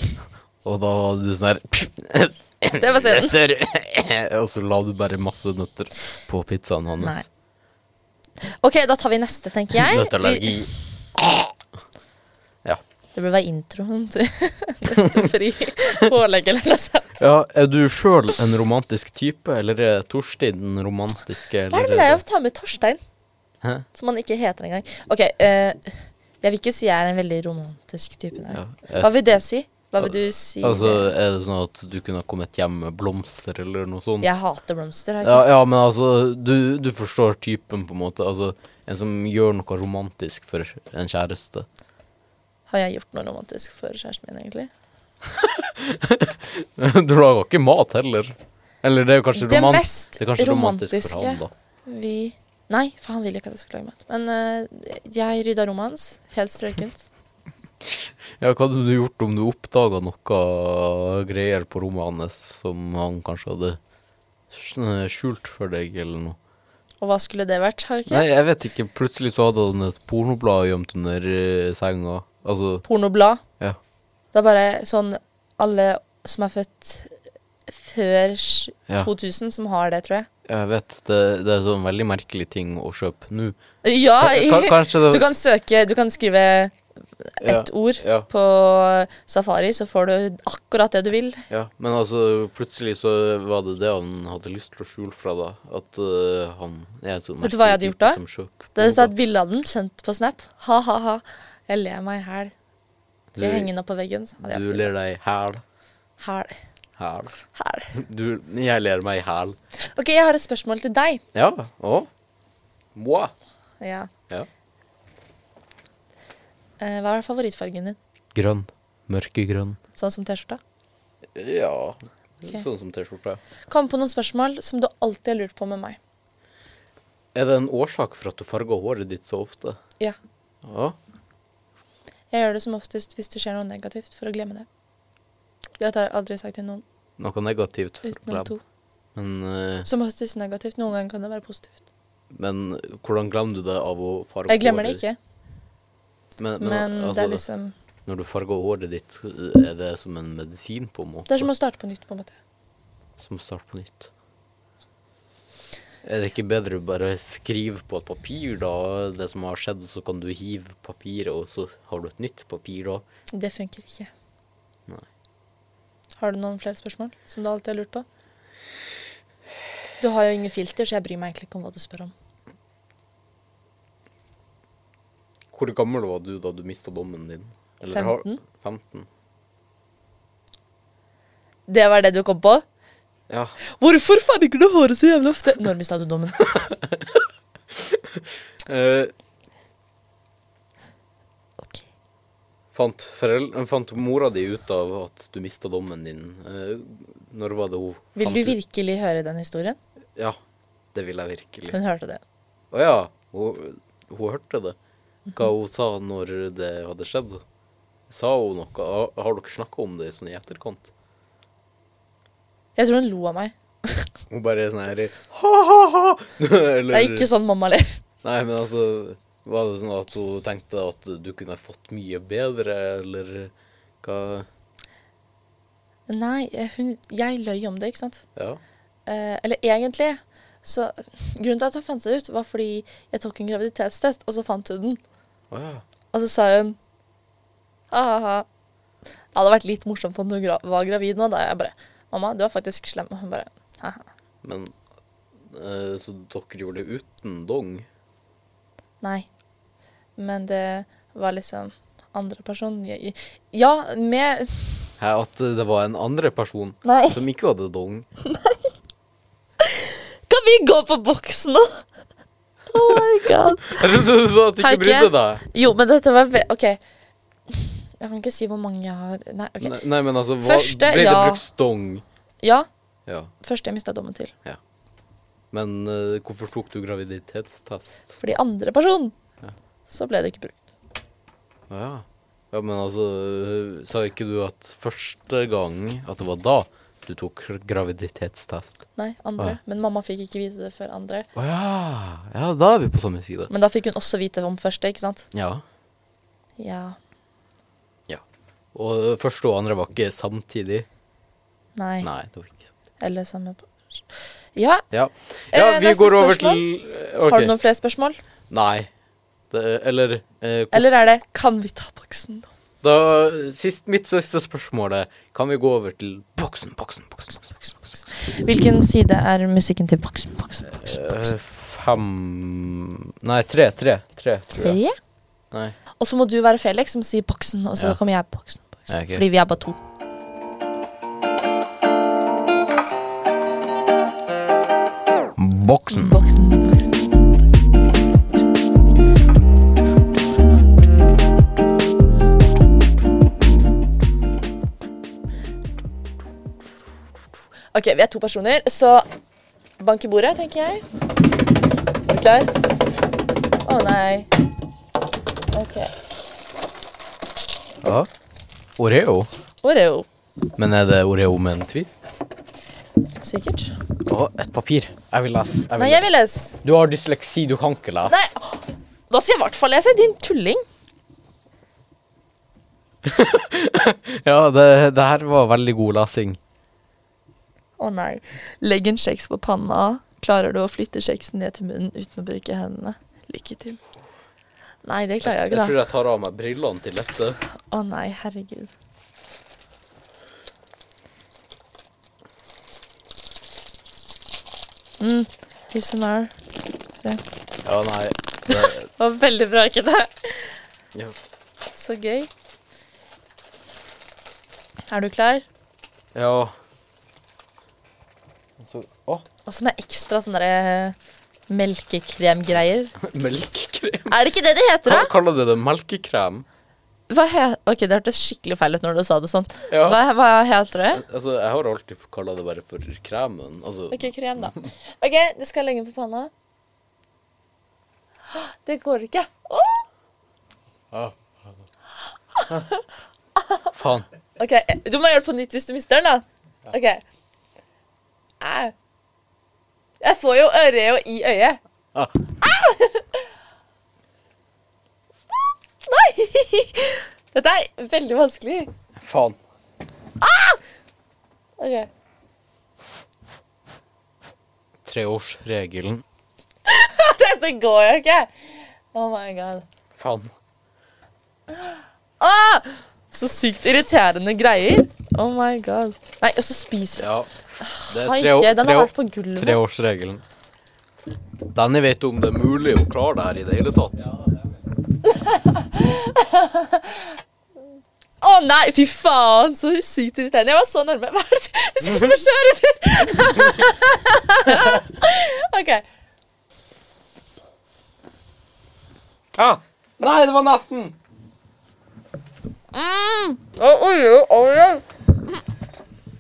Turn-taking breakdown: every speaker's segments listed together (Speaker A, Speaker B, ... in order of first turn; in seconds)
Speaker A: 0.6-7.2, 9.7-11.4, 15.0-15.3, 17.2-22.2, 28.5-29.4, 30.0-34.4, 35.2-41.7, 45.3-51.5, 57.8-63.8, 64.5-66.4, 68.1-72.8, 80.5-83.6, 84.2-85.2, 87.4-88.3, 91.5-99.1, 103.3-103.7, 104.4-105.6, 107.0-107.3, 107.9-109.6, 111.3-112.1, 112.9-113.3, 118.3-119.8, 121.3-123.4, 127.3-129.8, 130.6-130.9, 137.2-138.5, 139.1-139.9, 142.3-145.0, 146.4-147.4, 148.1-151.5, 153.2-154.1, 156.0-163.0, 175.5-179.1, 183.3-183.6, 186.5-187.2, 187.7-189.1, 192.7-198.6, 200.9-201.8, 202.7-204.8, 205.3-207.4, 208.1-210.9, 214.3-217.3, 218.2-224.5, 228.4-228.6, 235.5-235.8, 244.4-244.7, 245.5-247.9, 255.0-258.1, 262.7-265.4, 269.6-272.0, 275.5-278.1, 281.7-288.8, 291.4-293.5, 295.3-295.6, 298.7-300.9, 302.0-302.7, 304.9-307.6, 308.5-308.9, 309.5-310.9, 312.8-318.1, 320.7-324.8, 325.5-325.8, 328.9-329.2, 335.4-336.2, 357.8-358.1, 358.8-359.3, 360.6-362.0, 364.1-366.0, 366.6-368.2, 373.0-376.4, 385.2-387.4, 397.6-398.9, 406.1-406.5, 408.6-409.2, 413.0-414.2, 414.8-416.4, 419.7-420.0, 420.9-424.7, 430.9-431.5, 433.7-434.1, 448.9-449.4, 454.9-456.0, 459.9-460.3, 467.0-467.3, 467.9-470.2, 471.5-474.3, 481.8-482.2, 483.1-483.7, 484.4-484.8, 489.4-491.0
Speaker B: 2.8-3.4, 8.4-10.6, 13.1-17.2, 21.7-23.0, 23.9-31.1, 34.2-35.5, 42.7-44.7, 49.3-57.1, 67.0-68.2, 72.8-73.4, 74.3-77.1, 77.7-80.3, 83.8-91.4, 97.4-98.2, 98.7-102.5, 103.4-104.9, 106.2-106.5, 107.5-107.9, 109.8-111.2, 113.8-114.1, 116.8-118.0, 119.9-120.6, 123.7-126.0, 132.3-134.7, 135.8-136.8, 138.1-138.6, 139.8-141.8, 144.5-145.2, 146.6-147.7, 151.3-152.3, 163.3-164.1, 166.2-168.1, 170.0-172.1, 177.9-178.4, 181.7-182.6, 183.8-186.4, 198.2-199.8, 201.7-202.2, 212.8-214.1, 216.9-218.0, 226.1-228.2, 229.1-235.0, 236.1-236.8, 237.9-238.4, 239.3-244.0, 249.0-249.3, 250.2-254.8, 256.9-257.2, 258.2-258.6, 259.6-261.8, 262.7-263.9, 264.6-266.8, 267.5-269.8, 270.4-271.4, 272.4-272.7, 273.4-274.3, 278.1-279.1, 279.9-280.7, 289.0-291.3, 293.5-295.3, 296.6-297.0, 301.8-302.1, 303.0-304.0, 304.6-304.9, 305.5-306.6, 307.2-308.2, 310.7-312.5, 318.1-321.3, 324.5-325.0, 326.0-329.8, 335.9-337.1, 347.7-349.1, 349.8-350.8, 352.1-352.5, 353.6-354.3, 355.5-355.9, 359.6-360.1, 363.2-363.8, 365.8-366.6, 368.1-370.6, 377.8-383.8, 384.8-385.8, 387.7-388.7, 395.0-396.3, 397.0-397.2, 398.5-400.6, 401.7-402.3, 404.9-405.4, 409.4-410.9, 411.5-412.9, 414.1-415.1, 417.1-421.0, 423.9-426.3, 428.3-429.8, 433.4-433.6, 434.4-437.0, 438.4-438.7, 440.0-441.6, 442.4-443.2, 445.8-448.7, 450.2-450.6, 451.6-451.9, 456.6-458.3, 458.9-459.6, 461.6-467.1, 467.6-469.6, 475.1-477.1, 478.2-485.8, 492.7-494.9